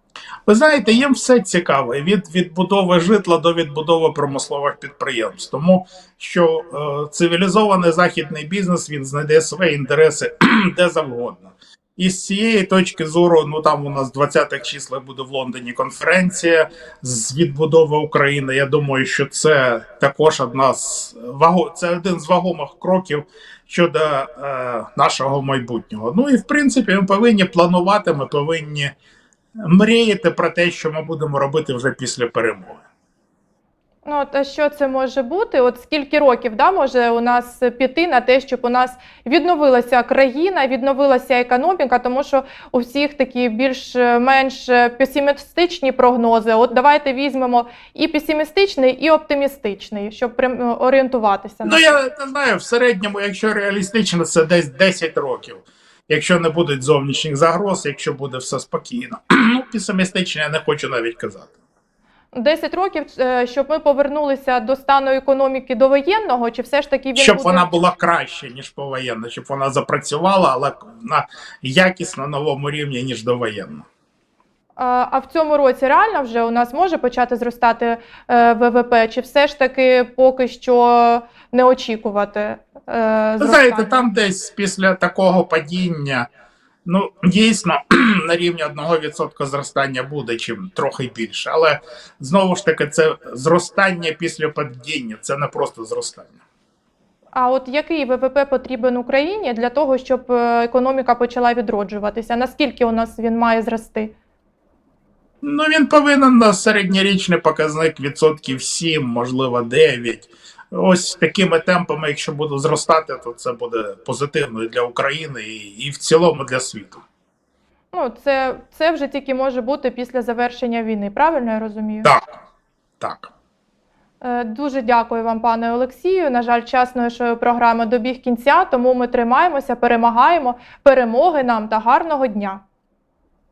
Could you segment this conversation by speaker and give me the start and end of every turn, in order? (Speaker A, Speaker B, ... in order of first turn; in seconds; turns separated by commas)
Speaker A: 0.5-28.9, Speaker A: 29.6-32.8, Speaker B: 34.0-52.0, Speaker A: 51.6-61.5, Speaker B: 62.3-67.7, Speaker A: 67.2-73.8, Speaker B: 74.8-84.0, Speaker A: 83.4-86.3, Speaker A: 86.8-96.3, Speaker B: 97.3-104.1, Speaker A: 105.4-117.0, Speaker B: 117.9-122.1, Speaker A: 123.0-123.3, Speaker B: 124.2-132.6